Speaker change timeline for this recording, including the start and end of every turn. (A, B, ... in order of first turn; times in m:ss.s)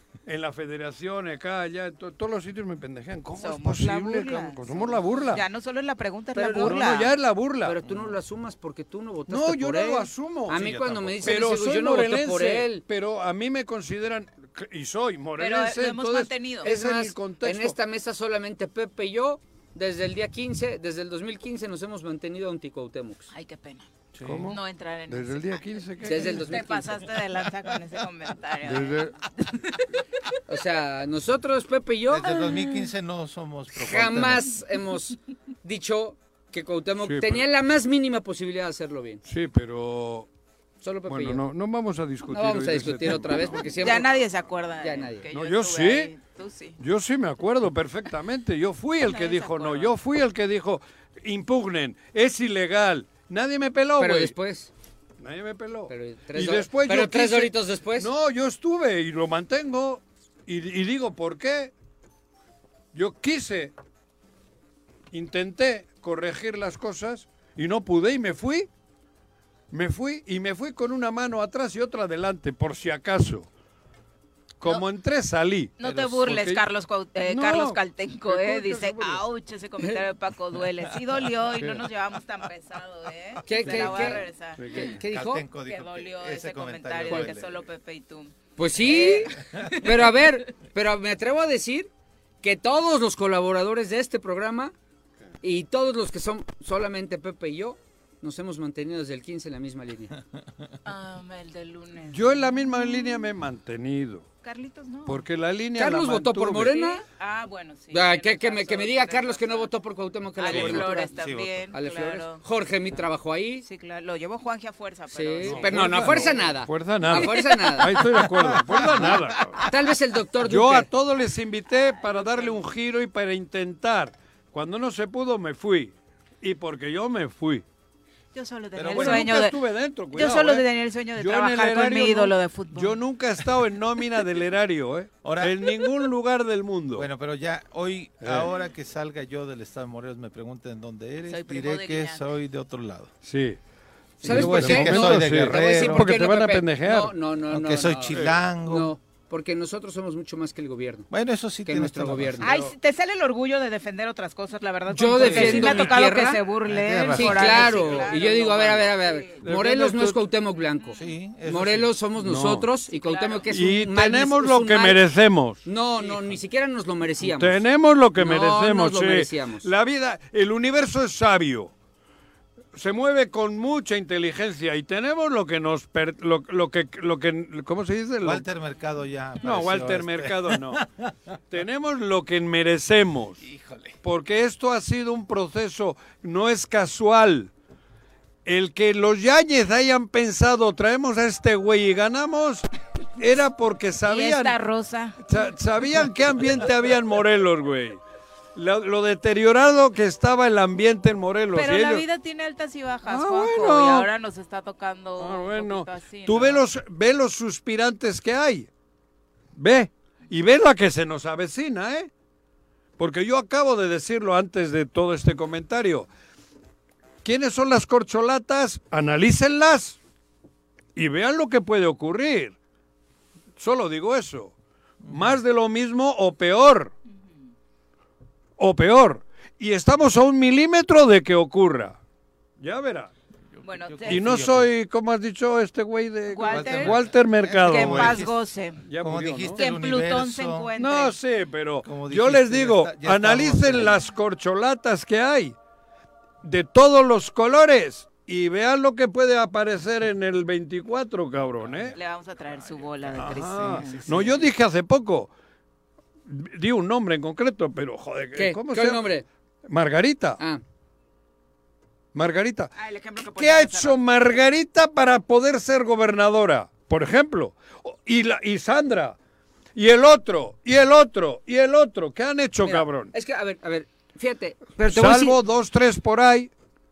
0:00.3-0:05.4 A
0:03.4-0:07.1 B
0:06.4-0:06.8 C
0:06.6-0:07.8 A
0:07.6-0:12.8 C
0:09.3-0:17.8 A
0:10.5-0:11.6 D
0:15.4-0:16.7 B
0:16.6-0:23.3 C
0:23.3-0:23.9 B
0:24.2-0:24.5 D
0:24.2-0:26.5 A
0:24.5-0:29.9 B
0:26.0-0:27.1 C
0:28.6-0:29.2 A
0:30.5-0:32.6 C
0:32.1-0:34.6 D
0:33.7-0:39.2 C
0:37.0-0:37.4 A
0:39.2-0:40.3 A
0:40.8-0:41.4 C
0:41.1-0:43.8 A
0:42.3-0:44.1 C
0:43.8-0:46.8 B
0:44.8-0:45.3 C
0:45.3-0:46.1 A
0:46.8-0:54.4 A
0:49.0-0:49.9 B
0:54.0-0:54.7 C
0:55.2-1:01.7 A
0:55.9-0:58.1 C
1:02.9-1:03.7 A
1:05.1-1:08.7 A
1:09.7-1:13.5 A
1:14.6-1:16.6 A
1:15.8-1:24.9 B
1:17.3-1:19.2 A
1:21.6-1:21.9 A
1:23.4-1:25.5 C
1:23.6-1:24.1 D
1:24.6-1:25.0 A
1:25.0-1:27.6 D
1:25.6-1:30.2 B
1:28.6-1:31.9 C
1:32.4-1:34.7 C
1:35.4-1:40.2 C
1:40.8-1:43.3 B
1:42.1-1:44.3 A
1:44.4-1:45.2 B
1:45.1-1:46.8 A
1:45.8-1:47.0 C
1:46.7-1:49.7 B
1:47.9-1:51.1 C
1:50.4-1:52.4 B
1:50.5-1:51.7 D
1:51.7-1:53.6 C
1:53.6-1:56.2 B
1:55.1-1:58.0 C
1:55.4-1:59.6 A
1:58.1-1:59.5 D
1:59.6-2:00.9 C
2:00.4-2:07.6 A
2:02.0-2:02.6 B
2:08.3-2:09.6 B
2:08.8-2:09.3 D
2:08.9-2:17.1 A
2:10.1-2:13.0 B
2:15.2-2:15.9 D
2:16.9-2:23.1 D
2:18.2-2:18.5 A
2:21.3-2:22.2 B
2:23.2-2:23.6 A
2:24.2-2:26.1 D
2:24.2-2:31.1 C
2:24.2-2:27.2 A
2:27.5-2:29.0 D
2:28.1-2:28.4 A
2:31.1-2:32.7 D
2:31.6-2:32.5 C
2:32.4-2:39.4 B
2:34.9-2:36.4 C
2:35.2-2:35.9 D
2:35.5-2:35.8 A
2:36.7-2:38.2 D
2:37.1-2:45.0 C
2:39.4-2:40.2 A
2:40.8-2:41.1 B
2:41.0-2:42.0 D
2:42.2-2:42.7 A
2:42.9-2:43.5 B
2:43.5-2:45.6 A
2:45.6-2:47.6 C
2:47.2-2:51.7 A
2:48.2-2:49.7 C
2:52.7-2:58.5 A
2:58.2-3:01.2 D
2:59.4-3:00.8 A
3:01.5-3:03.4 A
3:03.4-3:04.0 D
3:04.0-3:07.5 A
3:08.4-3:14.6 A
3:14.0-3:15.2 B
3:15.2-3:18.0 A
3:18.6-3:22.0 A
3:21.5-3:26.7 B
3:23.1-3:24.1 A
3:25.2-3:28.7 A
3:29.6-3:32.1 A
3:33.0-3:36.1 A
3:37.2-3:40.0 A
3:41.0-3:42.6 A
3:43.6-3:44.6 A
3:45.0-3:45.4 D
3:45.1-3:46.9 A
3:48.6-3:52.0 A
3:52.6-3:53.1 A
3:53.5-3:54.7 D
3:53.6-3:54.4 B
3:54.1-3:58.3 A
3:56.3-3:57.0 B
3:56.4-4:00.7 D
3:57.6-3:58.8 B
3:58.9-3:59.6 A
3:59.6-4:01.2 B
4:00.8-4:05.6 A
4:01.8-4:04.0 D
4:06.4-4:12.0 A
4:11.6-4:14.5 D
4:12.0-4:14.3 B
4:13.1-4:15.3 A
4:16.3-4:19.1 A
4:18.4-4:19.2 C
4:19.7-4:20.4 A
4:22.1-4:22.7 A
4:22.8-4:24.0 B
4:23.4-4:29.2 A
4:29.8-4:33.1 A
4:32.6-4:35.4 C
4:34.8-4:36.5 A